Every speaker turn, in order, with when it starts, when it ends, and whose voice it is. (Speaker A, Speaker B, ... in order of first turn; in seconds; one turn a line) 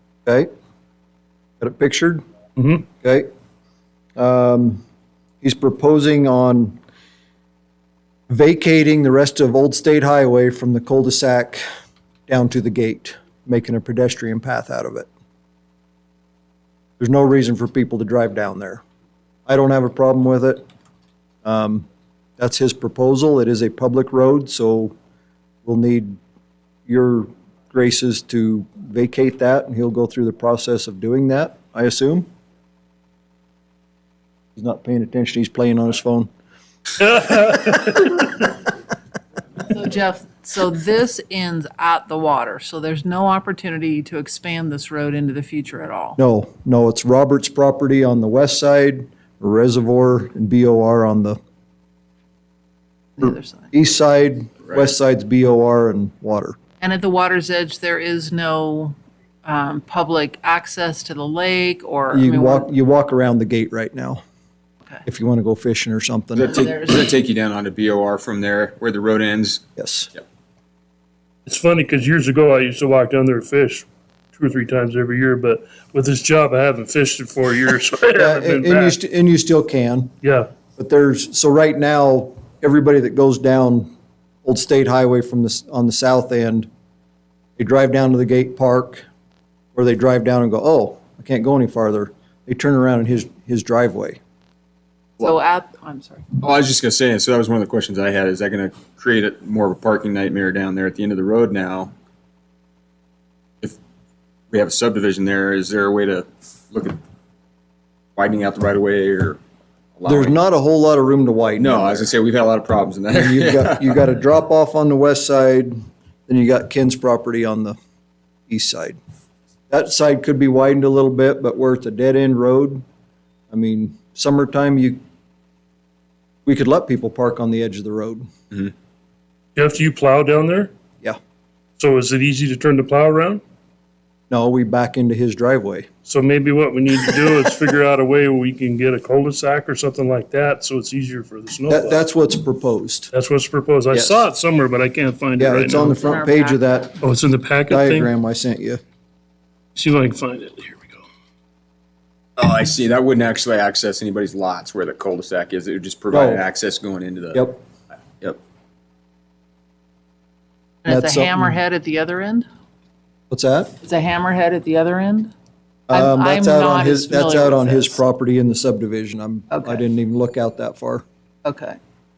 Speaker A: 1.6-2.2
Speaker B: 2.6-2.9
Speaker A: 3.0-3.3
Speaker A: 4.2-4.8
Speaker A: 5.4-6.8
Speaker A: 8.3-11.6
Speaker A: 12.3-15.1
Speaker A: 17.0-18.8
Speaker A: 19.5-20.6
Speaker A: 21.4-21.9
Speaker A: 22.4-24.9
Speaker A: 25.6-26.2
Speaker A: 26.9-32.3
Speaker A: 34.6-36.3
Speaker B: 37.0-38.2
Speaker C: 39.6-46.2
Speaker A: 46.2-51.4
Speaker C: 53.2-53.7
Speaker A: 53.2-56.6
Speaker C: 56.8-62.7
Speaker A: 62.1-64.2
Speaker A: 65.1-66.6
Speaker D: 66.4-69.7
Speaker C: 66.5-67.1
Speaker A: 69.8-70.1
Speaker B: 71.5-79.0
Speaker A: 78.2-80.2
Speaker B: 80.2-80.5
Speaker A: 80.8-83.9
Speaker A: 84.4-86.7
Speaker A: 87.6-89.0
Speaker A: 89.8-94.2
Speaker C: 95.2-96.3
Speaker D: 96.4-101.9
Speaker D: 104.5-107.0
Speaker D: 108.2-109.4
Speaker D: 110.0-110.4
Speaker A: 110.1-112.1
Speaker D: 111.6-114.0
Speaker A: 113.1-115.7
Speaker A: 116.3-117.8
Speaker A: 118.5-119.0
Speaker A: 119.7-122.8
Speaker A: 123.5-125.0
Speaker A: 126.5-128.3
Speaker B: 129.6-130.7
Speaker B: 131.8-133.4
Speaker A: 134.3-135.9
Speaker B: 136.1-142.0
Speaker A: 141.7-143.1
Speaker B: 143.1-146.0
Speaker A: 143.9-144.3
Speaker A: 145.4-147.0
Speaker C: 145.9-146.7
Speaker B: 147.0-148.1
Speaker A: 147.7-148.8
Speaker B: 149.8-151.1
Speaker D: 152.4-157.5
Speaker A: 156.1-156.4
Speaker A: 157.3-157.6
Speaker C: 160.8-162.5
Speaker A: 160.9-161.6
Speaker A: 163.3-163.8
Speaker C: 163.8-165.3
Speaker A: 165.9-171.0
Speaker C: 165.9-168.0
Speaker C: 169.5-169.8
Speaker C: 171.4-171.8